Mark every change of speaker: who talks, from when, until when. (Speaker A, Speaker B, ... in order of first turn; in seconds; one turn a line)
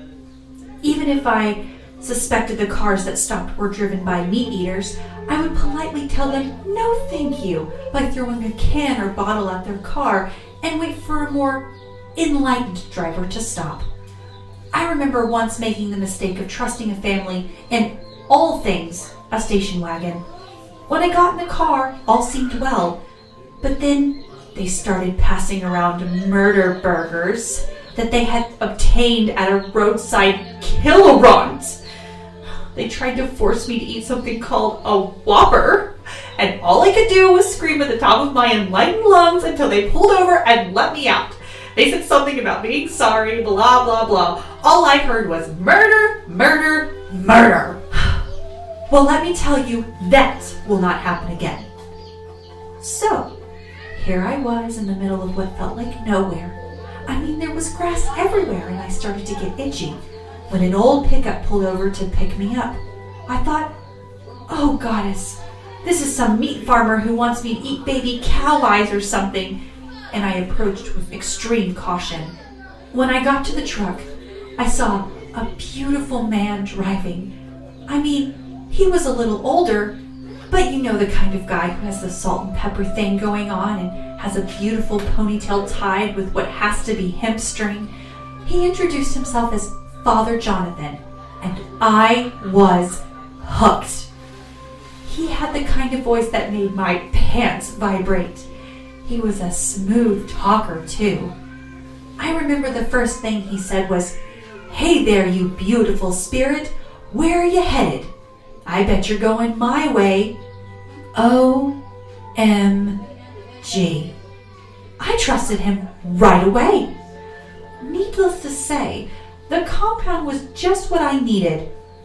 Speaker A: 0.8-11.6
Speaker A: 12.2-13.9
Speaker A: 14.7-20.2
Speaker A: 20.9-23.0
Speaker A: 23.6-31.8
Speaker A: 32.7-48.2
Speaker A: 48.9-51.6
Speaker A: 52.8-53.3
Speaker A: 53.9-56.5
Speaker A: 57.0-63.7
Speaker A: 64.5-69.5
Speaker A: 70.1-72.3
Speaker A: 72.9-77.3
Speaker A: 77.9-79.9
Speaker A: 80.5-87.9
Speaker A: 88.4-94.1
Speaker A: 95.0-98.5
Speaker A: 99.0-101.3
Speaker A: 102.2-104.1
Speaker A: 104.7-108.1
Speaker A: 108.6-110.3
Speaker A: 111.1-111.7
Speaker A: 112.3-113.0
Speaker A: 113.6-114.1
Speaker A: 115.0-116.9
Speaker A: 117.8-121.7